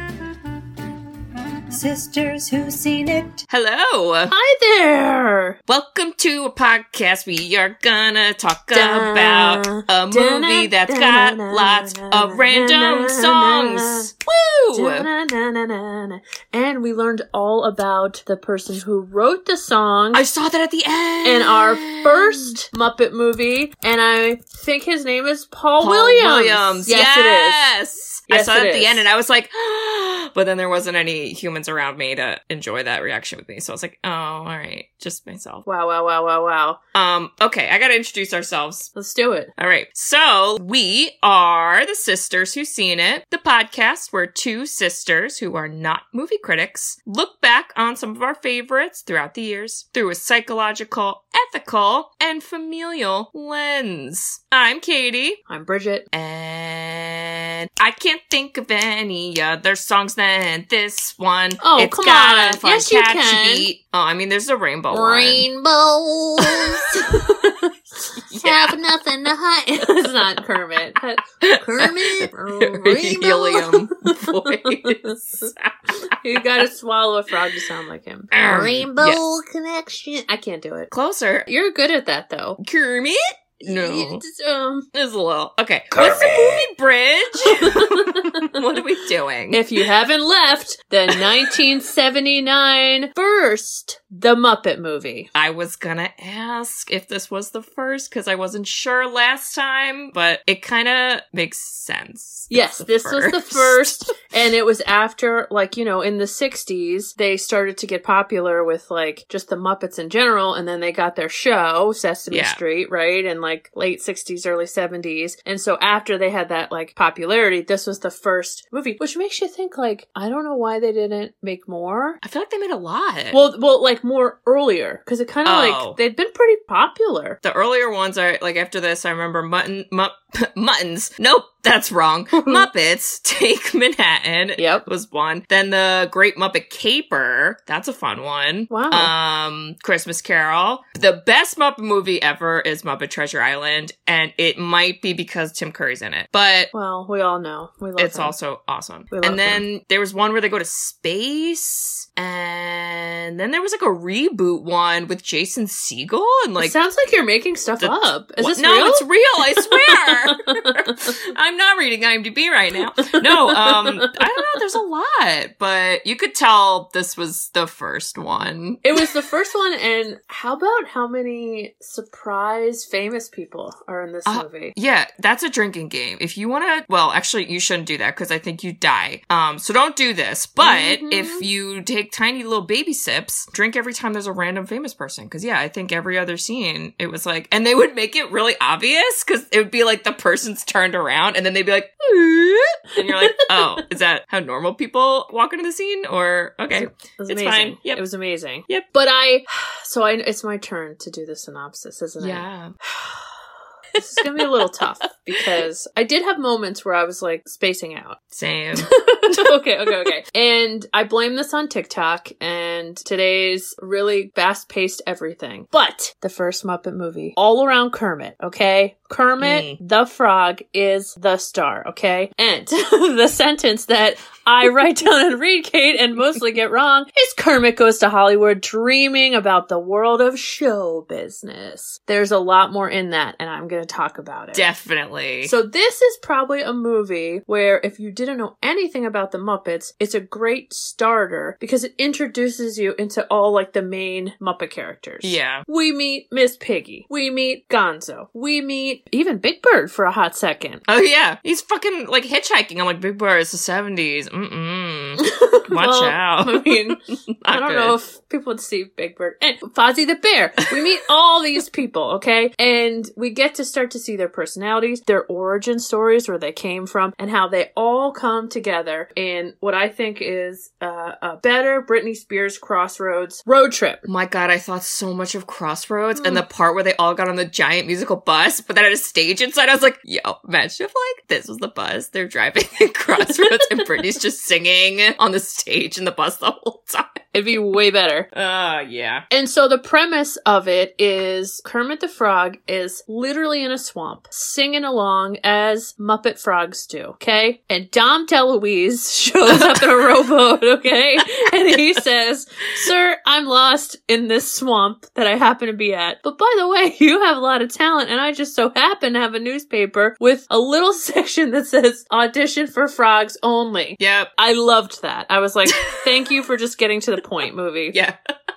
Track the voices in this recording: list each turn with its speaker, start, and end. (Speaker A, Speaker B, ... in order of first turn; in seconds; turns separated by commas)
Speaker A: 1.7-3.4, Speaker B: 3.5-4.3, Speaker C: 4.3-5.6, Speaker B: 5.7-15.1, Speaker C: 8.7-14.1, Speaker C: 14.7-20.2, Speaker B: 20.1-22.5, Speaker C: 21.2-27.7, Speaker B: 25.8-35.6, Speaker C: 28.3-29.1, Speaker C: 35.6-36.8, Speaker B: 36.9-38.9, Speaker C: 38.9-39.5, Speaker B: 39.6-55.4, Speaker C: 55.5-56.0, Speaker B: 56.1-65.5, Speaker C: 61.6-63.7, Speaker C: 64.9-75.5, Speaker B: 66.4-67.2, Speaker B: 68.3-68.8, Speaker B: 71.4-76.2, Speaker C: 76.2-80.9, Speaker B: 78.3-79.2, Speaker B: 80.9-81.5, Speaker C: 81.5-82.6, Speaker B: 82.6-84.2, Speaker C: 83.6-84.9, Speaker B: 84.9-89.6, Speaker A: 86.0-86.6, Speaker C: 87.5-88.5, Speaker C: 89.5-95.3, Speaker B: 95.3-104.0, Speaker C: 102.5-122.2, Speaker B: 112.3-112.6, Speaker B: 122.2-123.4, Speaker C: 123.3-127.4, Speaker B: 125.4-126.0, Speaker B: 127.4-146.7, Speaker C: 132.3-132.7, Speaker C: 134.6-134.8, Speaker C: 138.7-139.1, Speaker C: 146.7-148.3, Speaker B: 148.0-156.7, Speaker C: 149.1-149.6, Speaker C: 156.6-159.1, Speaker B: 157.8-168.8, Speaker C: 159.6-161.0, Speaker C: 163.1-164.5, Speaker C: 168.8-174.7, Speaker B: 174.2-198.0, Speaker C: 180.6-181.4, Speaker C: 193.0-193.8, Speaker C: 196.7-203.3, Speaker B: 202.2-202.7, Speaker B: 203.9-205.6, Speaker C: 204.0-208.2, Speaker B: 208.3-210.1, Speaker C: 208.7-234.7, Speaker B: 219.4-219.8, Speaker B: 234.5-235.5, Speaker C: 235.4-250.8, Speaker B: 245.2-245.7, Speaker B: 250.9-257.9, Speaker C: 255.2-257.0, Speaker C: 257.5-274.0, Speaker B: 274.0-287.2, Speaker C: 276.2-276.4, Speaker C: 283.2-283.9, Speaker C: 287.3-288.3, Speaker B: 288.3-289.2, Speaker C: 289.3-318.0, Speaker B: 299.5-300.0, Speaker B: 314.0-314.3